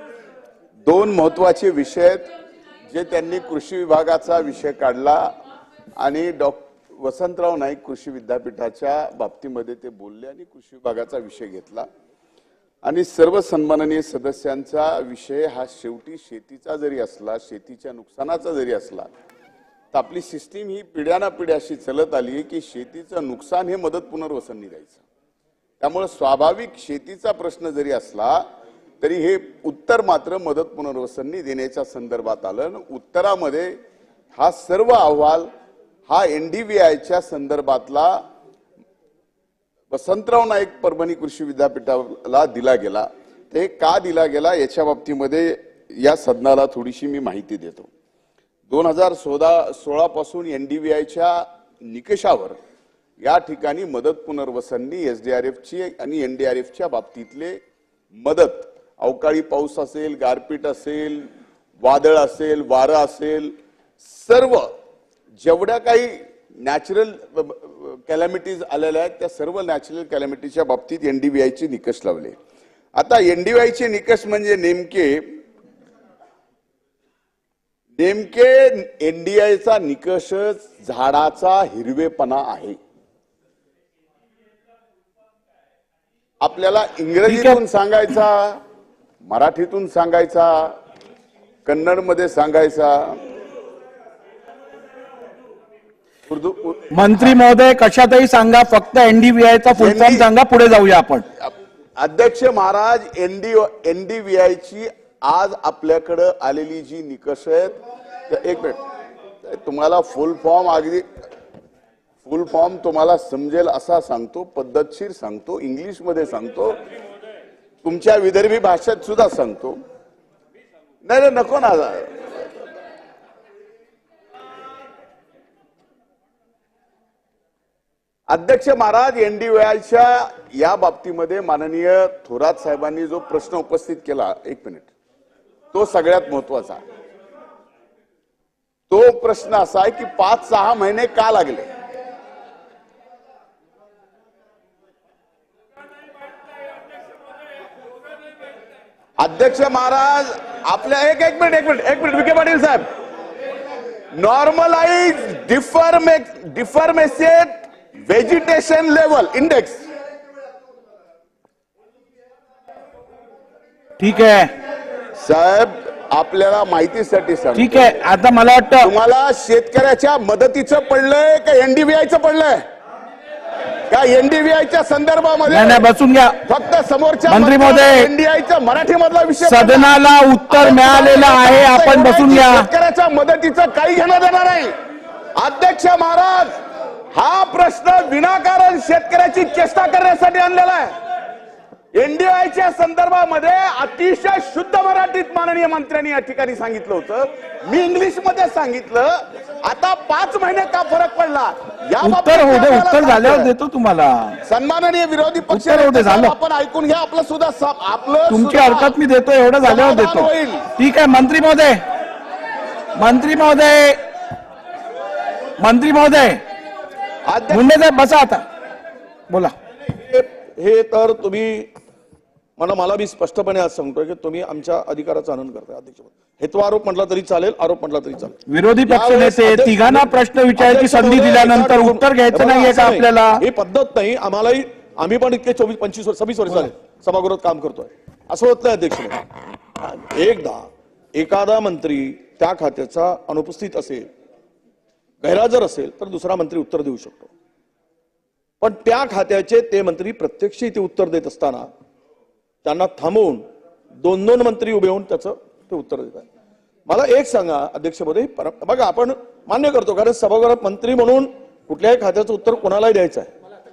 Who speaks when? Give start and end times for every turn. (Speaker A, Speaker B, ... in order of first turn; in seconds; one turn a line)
Speaker A: 0.9-2.3
Speaker A: 2.9-5.3
Speaker A: 6.0-11.9
Speaker A: 12.8-19.1
Speaker A: 19.9-25.0
Speaker A: 25.8-28.4
Speaker A: 29.0-33.7
Speaker A: 34.3-35.5
Speaker A: 36.1-38.2
Speaker A: 39.9-47.9
Speaker A: 48.7-52.6
Speaker A: 53.2-57.6
Speaker A: 58.1-61.3
Speaker A: 61.8-64.7
Speaker A: 65.4-72.4
Speaker A: 73.0-75.2
Speaker A: 78.0-82.8
Speaker A: 86.4-88.6
Speaker B: 87.3-87.6
Speaker A: 89.2-90.7
Speaker A: 91.7-93.2
Speaker A: 96.3-96.8
Speaker B: 96.9-101.2
Speaker A: 99.8-100.3
Speaker A: 101.4-108.8
Speaker A: 109.4-111.1
Speaker A: 112.2-116.8
Speaker A: 117.8-119.8
Speaker A: 121.0-122.3
Speaker A: 128.3-134.9
Speaker A: 135.7-136.8
Speaker A: 138.9-141.7
Speaker A: 149.2-152.9
Speaker A: 154.1-157.5
Speaker A: 158.1-159.8
Speaker B: 164.0-164.5
Speaker A: 165.2-168.0
Speaker B: 167.6-168.9
Speaker A: 168.8-172.6
Speaker A: 173.9-175.8
Speaker B: 175.5-176.4
Speaker A: 176.4-184.7
Speaker B: 177.3-178.1
Speaker B: 179.4-182.7
Speaker A: 185.4-186.6
Speaker A: 187.1-191.0
Speaker A: 191.9-203.5
Speaker B: 202.0-204.4
Speaker A: 204.4-209.0
Speaker B: 205.5-206.3
Speaker B: 208.3-211.8
Speaker A: 209.6-210.7
Speaker B: 213.0-214.0
Speaker B: 215.6-216.4
Speaker A: 217.3-217.7
Speaker B: 217.5-218.4
Speaker B: 219.3-219.5
Speaker C: 219.9-221.7
Speaker C: 222.6-239.2
Speaker B: 228.5-233.4
Speaker C: 239.8-244.1
Speaker C: 245.2-247.3
Speaker C: 248.6-251.7
Speaker C: 252.6-253.4
Speaker C: 254.0-256.2
Speaker C: 256.9-263.3